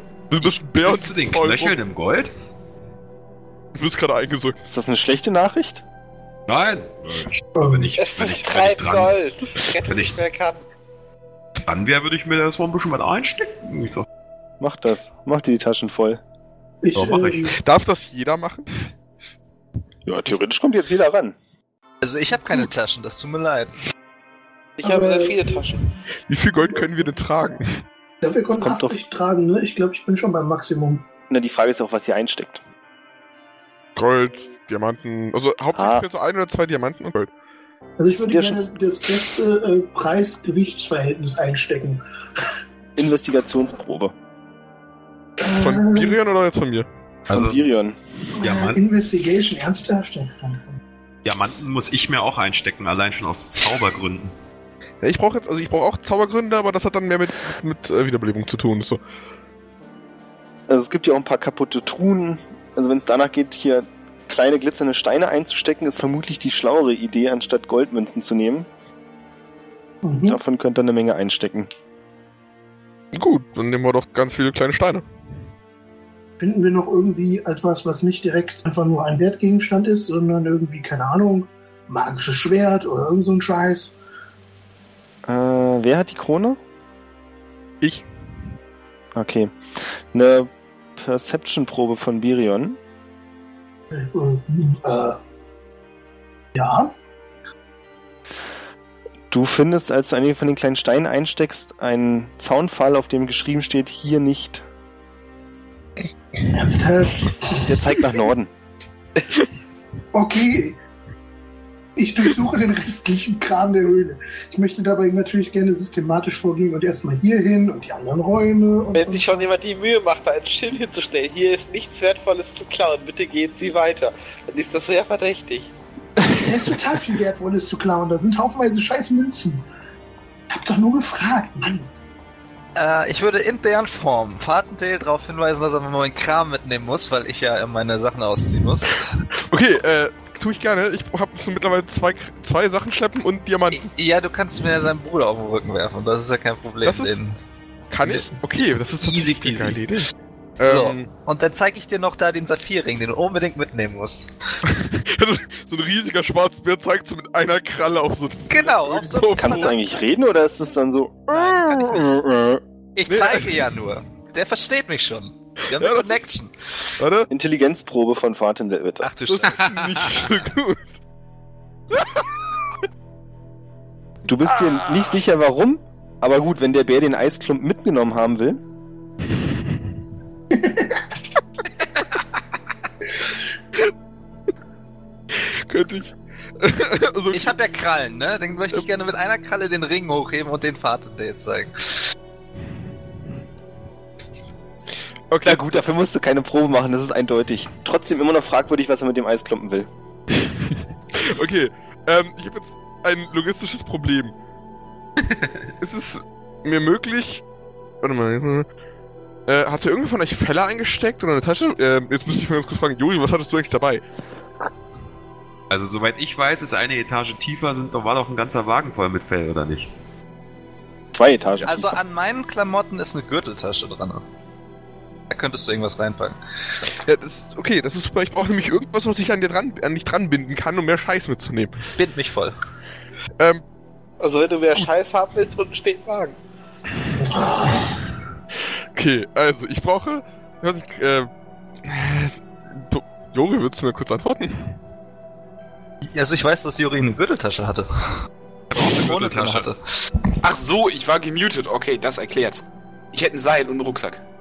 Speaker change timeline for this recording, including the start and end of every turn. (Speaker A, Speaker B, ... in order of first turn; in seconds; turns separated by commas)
Speaker A: 0.3-1.8, Speaker B: 0.8-2.3, Speaker A: 3.8-4.6, Speaker C: 4.7-5.8, Speaker B: 6.5-10.2, Speaker D: 7.6-7.9, Speaker E: 8.0-10.6, Speaker B: 11.6-14.1, Speaker C: 14.6-16.2, Speaker D: 16.8-17.6, Speaker B: 16.9-17.5, Speaker A: 17.6-18.7, Speaker C: 20.1-21.4, Speaker F: 22.0-23.8, Speaker E: 24.8-25.8, Speaker D: 24.8-25.6, Speaker A: 26.3-27.8, Speaker D: 28.2-31.1, Speaker C: 28.5-29.0, Speaker C: 31.3-32.6, Speaker A: 34.0-37.3, Speaker C: 35.7-36.0, Speaker D: 38.0-42.0, Speaker C: 38.2-38.6, Speaker C: 43.0-44.1, Speaker D: 45.4-46.2, Speaker A: 45.5-46.9, Speaker B: 47.3-47.6, Speaker C: 47.3-48.3, Speaker D: 48.4-50.8, Speaker B: 48.4-48.8, Speaker B: 51.2-54.3, Speaker A: 55.0-59.0, Speaker C: 60.7-68.7, Speaker D: 70.0-70.4, Speaker C: 70.3-71.7, Speaker A: 73.1-75.0, Speaker D: 76.4-83.9, Speaker C: 85.3-86.6, Speaker A: 87.8-88.1, Speaker C: 89.1-92.8, Speaker D: 93.9-95.2, Speaker D: 96.5-96.9, Speaker C: 99.3-104.6, Speaker D: 106.5-107.8, Speaker C: 107.5-108.5, Speaker D: 110.1-110.8, Speaker D: 112.0-119.5, Speaker E: 118.9-125.7, Speaker D: 126.3-129.6, Speaker D: 130.5-131.9, Speaker F: 132.8-139.0, Speaker A: 139.5-143.9, Speaker F: 143.7-147.4, Speaker A: 146.8-147.2, Speaker A: 147.9-151.1, Speaker F: 148.0-148.3, Speaker F: 149.0-149.8, Speaker F: 150.7-154.3, Speaker A: 154.7-159.8, Speaker F: 158.5-159.8, Speaker C: 159.4-162.6, Speaker F: 161.3-162.2, Speaker F: 163.0-166.6, Speaker A: 163.1-163.7, Speaker A: 165.7-166.4, Speaker A: 167.0-167.3, Speaker C: 167.3-169.1, Speaker F: 169.0-170.3, Speaker A: 169.3-170.9, Speaker A: 172.0-172.2, Speaker C: 174.3-178.6, Speaker D: 180.5-181.0, Speaker A: 185.4-187.6, Speaker F: 187.3-192.0, Speaker A: 195.3-195.7, Speaker C: 195.4-199.9, Speaker A: 200.4-204.3, Speaker A: 205.8-207.4, Speaker A: 208.0-208.7, Speaker A: 209.5-214.0, Speaker B: 215.7-219.9, Speaker C: 221.1-222.0, Speaker F: 221.6-224.2, Speaker F: 225.3-226.4, Speaker A: 227.0-231.8, Speaker F: 231.9-232.6, Speaker E: 234.2-236.4, Speaker D: 237.2-238.0, Speaker A: 238.9-241.3, Speaker A: 241.8-244.8, Speaker F: 246.1-248.2, Speaker F: 248.7-249.8, Speaker B: 248.8-249.7, Speaker G: 250.4-254.2